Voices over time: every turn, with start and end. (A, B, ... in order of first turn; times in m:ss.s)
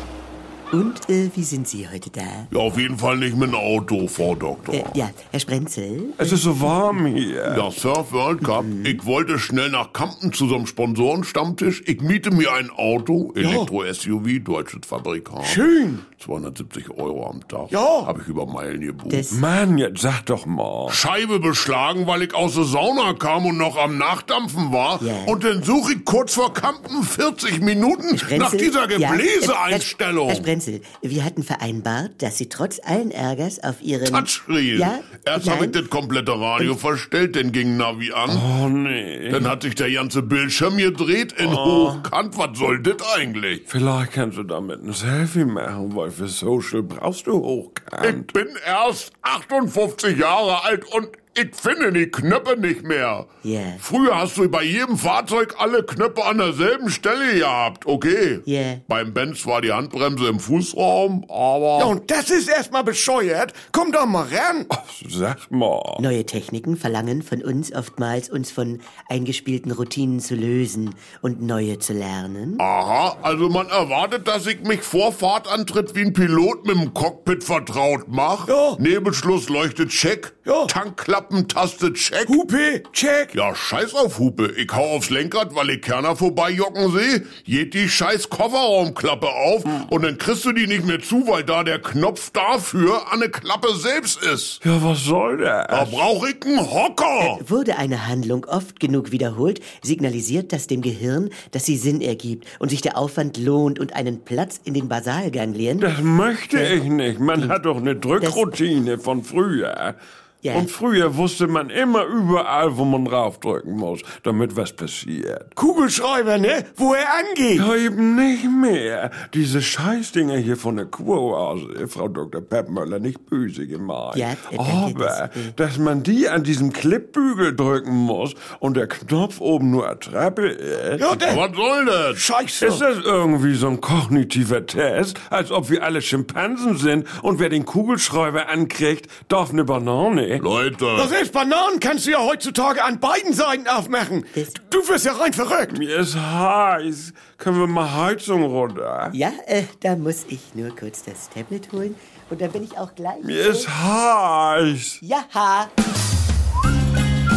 0:00.7-0:02.5 A
0:02.5-0:05.0 B
0:04.7-0:06.4 A
0:06.2-0:07.6 C
0:07.4-0:19.3 B
0:08.4-0:09.0 A
0:13.4-0:13.7 D
0:15.4-0:16.0 D
0:17.7-0:18.1 D
0:19.1-0:19.4 A
0:19.3-0:21.0 C
0:20.9-0:30.5 B
0:25.0-0:25.4 A
0:28.1-0:35.8 A
0:34.0-0:38.4 B
0:38.3-0:39.5 C
0:39.3-0:43.6 B
0:41.4-0:42.1 C
0:43.7-0:48.3 C
0:48.0-0:53.3 B
0:53.4-0:53.8 A
0:53.8-1:01.9 B
0:58.4-0:58.8 A
1:01.8-1:04.7 D
1:04.7-1:06.0 C
1:06.0-1:12.6 A
1:12.6-1:22.4 B
1:18.5-1:18.8 D
1:20.4-1:20.7 D
1:22.2-1:23.3 D
1:23.3-1:34.6 B
1:34.6-1:36.0 C
1:35.7-1:37.4 B
1:37.2-1:45.9 A
1:45.8-1:50.0 C
1:46.5-1:46.8 A
1:48.2-1:48.5 A
1:50.4-1:50.7 A
1:50.5-1:55.5 C
1:55.6-1:57.7 D
1:57.5-2:11.2 C
2:04.1-2:05.6 A
2:11.0-2:11.4 D
2:11.2-2:12.2 B
2:12.1-2:12.8 D
2:12.6-2:20.4 C
2:20.4-2:21.1 B
2:20.9-2:25.8 D
2:24.3-2:24.6 A
2:25.7-2:29.2 C
2:29.1-2:33.7 A
2:33.2-2:35.0 C
2:35.0-2:35.7 A